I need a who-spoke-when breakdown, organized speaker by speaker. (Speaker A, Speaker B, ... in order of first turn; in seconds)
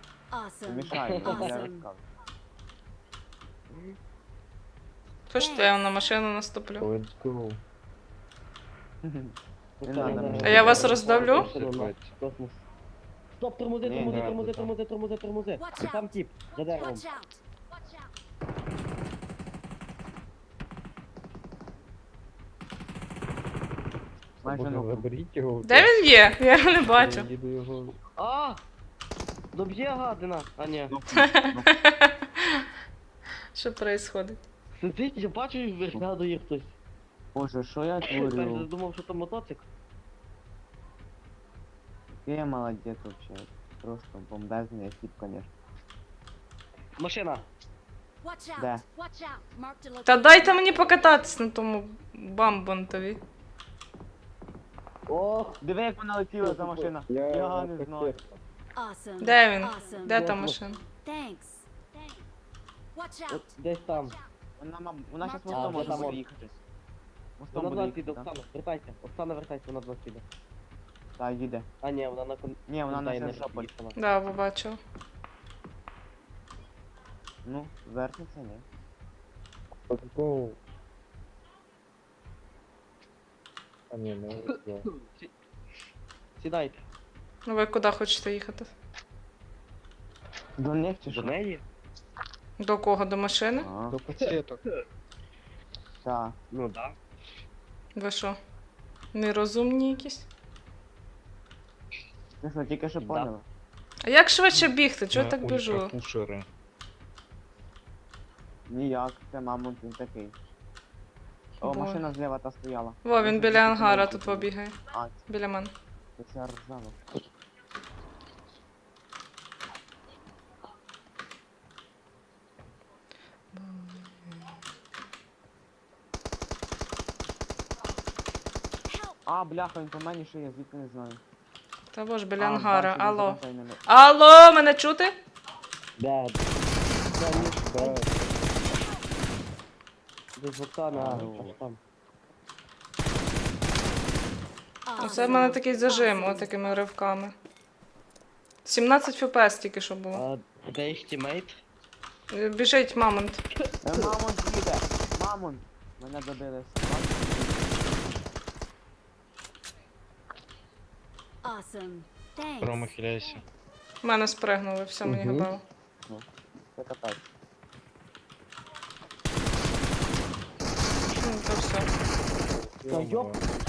Speaker A: 0.3-1.8, 5.4-5.7, 15.6-18.1, 48.2-51.4, 58.8-62.2, 62.9-64.3, 65.2-66.2, 128.9-129.2, 144.8-146.6, 161.4-162.9
Speaker B: 0.7-2.0, 9.0-10.8, 13.8-14.4, 24.4-25.1, 30.9-31.8, 37.3-38.7, 42.2-45.5, 48.6-48.8, 55.6-58.1, 64.6-66.5, 67.4-68.3, 71.2-71.7, 72.7-73.7, 77.4-78.6, 90.6-91.3, 93.5-94.0, 96.0-96.4, 102.4-103.4, 108.7-110.3, 111.6-115.2, 116.2-117.0, 129.3-131.2, 132.4-133.8, 141.0-141.5, 153.8-157.8, 166.1-167.2
Speaker C: 0.9-1.6, 9.8-12.6, 13.4-17.1, 28.2-28.6, 29.5-30.9, 34.8-36.8, 38.0-39.7, 47.0-47.5, 55.1-55.6, 56.4-56.9, 60.0-60.6, 63.3-64.2, 65.5-66.2, 67.5-70.2, 71.8-74.0, 84.5-85.3, 86.4-86.8, 91.1-91.6, 96.5-97.0, 103.0-103.3, 136.0-136.5, 137.1-138.0, 140.4-141.8, 145.0-145.5, 150.1-151.6, 165.1-165.5, 172.9-173.4
Speaker D: 5.3-6.9, 10.4-11.5, 25.6-27.3, 31.1-32.6, 33.5-34.4, 50.0-53.2, 59.2-60.8, 74.0-74.8, 87.5-88.7, 92.6-93.7, 98.0-98.4, 99.1-100.3, 104.0-105.9, 111.6-112.0, 113.0-114.8, 115.3-115.7, 123.5-124.5, 131.9-135.1, 145.0-147.3, 148.7-150.2, 152.3-153.4, 164.0-165.6, 171.2-171.9
Speaker E: 6.8-7.6, 10.0-12.1, 14.0-14.7, 24.4-26.1, 26.8-28.0, 57.1-58.4, 79.9-80.6, 83.9-84.9, 93.9-94.6, 105.1-106.5, 137.4-138.4, 140.9-141.6, 162.6-163.4, 172.5-173.4